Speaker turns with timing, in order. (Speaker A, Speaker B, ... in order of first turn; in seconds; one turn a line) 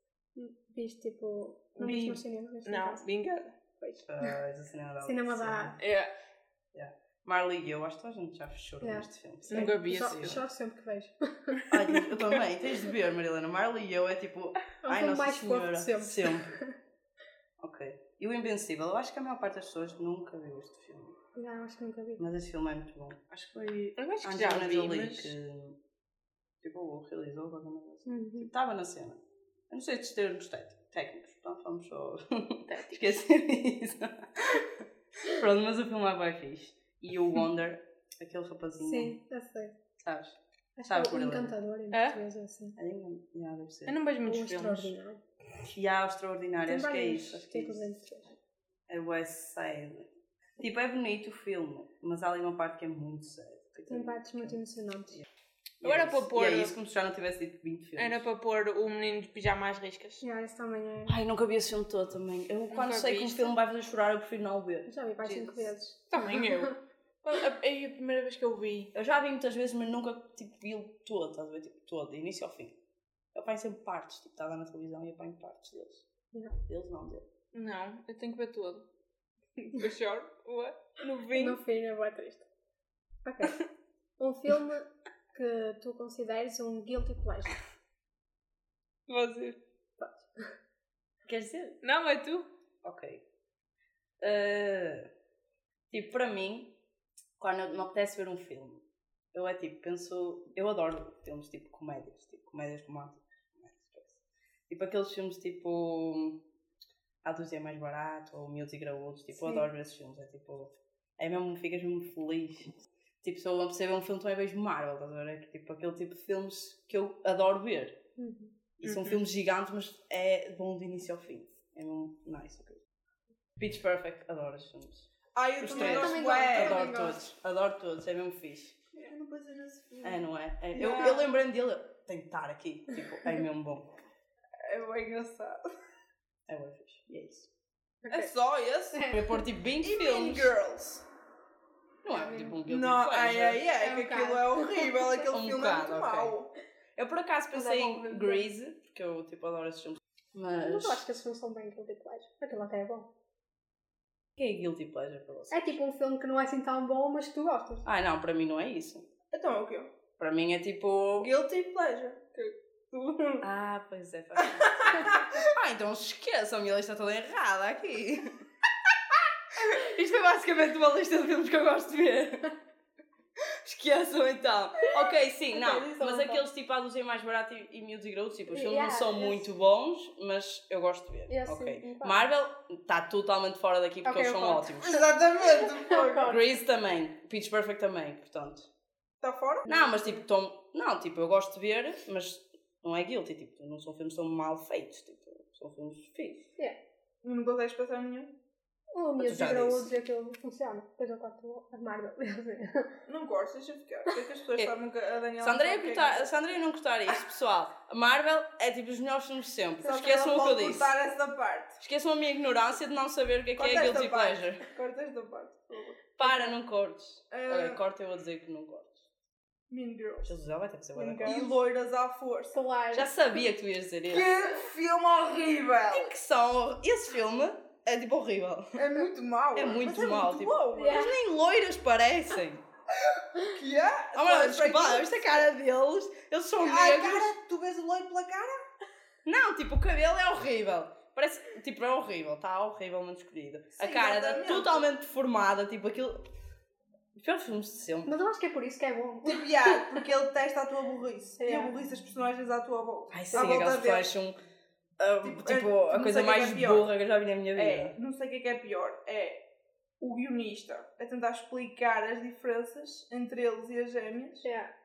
Speaker A: 0.3-3.0
Speaker B: 1.8-3.5
Speaker A: 3.8-4.3
Speaker C: 4.0-5.8
Speaker A: 5.0-5.8
Speaker B: 5.8-6.1
Speaker C: 6.7-10.4
Speaker A: 8.8-11.6
Speaker B: 9.5-10.4
Speaker B: 11.6-12.4
Speaker C: 11.7-16.5
Speaker A: 14.8-16.8
Speaker C: 17.6-21.2
Speaker A: 21.4-22.2
Speaker C: 22.2-25.8
Speaker B: 24.0-25.3
Speaker C: 26.6-39.2
Speaker A: 28.1-28.5
Speaker B: 32.7-33.1
Speaker A: 38.8-39.8
Speaker C: 40.0-40.4
Speaker A: 40.8-42.8
Speaker C: 40.9-41.5
Speaker B: 41.9-42.2
Speaker C: 42.8-44.0
Speaker B: 43.9-44.9
Speaker A: 44.2-45.2
Speaker C: 45.7-48.0
Speaker A: 46.6-48.3
Speaker C: 48.9-50.1
Speaker C: 50.6-54.6
Speaker A: 53.9-55.2
Speaker C: 55.8-58.2
Speaker B: 55.8-56.7
Speaker B: 58.0-60.2
Speaker A: 60.2-61.1
Speaker C: 61.1-65.4
Speaker B: 62.7-63.5
Speaker A: 64.9-66.6
Speaker B: 65.3-68.9
Speaker C: 68.9-72.7
Speaker C: 73.3-76.1
Speaker C: 76.7-77.3
Speaker B: 77.5-78.8
Speaker B: 79.6-81.6
Speaker A: 81.3-82.5
Speaker A: 83.2-83.6
Speaker A: 84.2-87.6
Speaker B: 89.1-89.6
Speaker A: 90.0-90.5
Speaker C: 91.2-91.8
Speaker B: 91.8-92.5
Speaker C: 92.8-93.2
Speaker C: 94.2-95.1
Speaker C: 95.9-96.7
Speaker C: 97.4-106.4
Speaker C: 107.2-118.0
Speaker A: 109.4-109.7
Speaker A: 118.2-118.5
Speaker C: 118.8-122.8
Speaker B: 118.8-119.2
Speaker C: 123.6-125.1
Speaker B: 125.3-126.8
Speaker C: 125.6-128.9
Speaker A: 125.7-127.2
Speaker B: 129.0-130.2
Speaker C: 130.0-133.9
Speaker B: 130.7-131.3
Speaker B: 134.6-135.6
Speaker C: 136.5-137.5
Speaker A: 138.0-138.3
Speaker B: 138.1-138.9
Speaker C: 138.1-140.6
Speaker A: 138.9-139.4
Speaker B: 139.8-141.0
Speaker C: 142.0-143.6
Speaker A: 142.1-142.6
Speaker B: 142.7-146.5
Speaker A: 143.8-145.2
Speaker C: 145.3-146.3
Speaker C: 146.9-151.0
Speaker A: 147.5-148.4
Speaker A: 150.6-153.1
Speaker C: 154.3-155.8
Speaker A: 155.5-157.8
Speaker C: 157.8-159.1
Speaker B: 159.3-159.9
Speaker C: 160.2-161.3
Speaker B: 161.2-163.5
Speaker C: 163.4-168.3
Speaker B: 164.4-165.5
Speaker C: 169.6-172.5
Speaker C: 173.4-185.0
Speaker B: 175.5-176.4
Speaker A: 178.5-179.5
Speaker A: 181.3-182.2
Speaker A: 184.1-186.5
Speaker B: 184.8-186.4
Speaker C: 186.2-188.7
Speaker B: 189.2-189.7
Speaker C: 189.7-196.5
Speaker A: 189.7-190.2
Speaker B: 197.2-198.3
Speaker A: 198.9-203.0
Speaker C: 199.2-199.9
Speaker B: 203.1-206.3
Speaker C: 205.4-210.9
Speaker B: 209.8-211.8
Speaker C: 211.8-214.6
Speaker B: 213.6-216.1
Speaker C: 216.2-219.1
Speaker A: 216.2-216.5
Speaker B: 217.3-217.8
Speaker B: 219.7-220.3
Speaker C: 220.2-221.5
Speaker A: 220.9-221.5
Speaker B: 221.2-222.6
Speaker A: 222.5-223.1
Speaker C: 222.9-224.3
Speaker B: 224.1-226.1
Speaker C: 225.9-228.8
Speaker B: 228.8-230.9
Speaker C: 229.5-232.6
Speaker A: 230.7-231.2
Speaker B: 233.0-235.2
Speaker C: 234.1-237.3
Speaker B: 236.6-238.6
Speaker C: 239.2-246.2
Speaker B: 243.8-244.8
Speaker C: 247.2-248.1
Speaker A: 248.1-250.0
Speaker B: 249.2-254.1
Speaker A: 251.4-251.7
Speaker C: 253.1-254.3
Speaker C: 255.0-257.9
Speaker B: 255.2-256.9
Speaker B: 257.6-259.4
Speaker B: 260.0-264.4
Speaker A: 264.4-264.7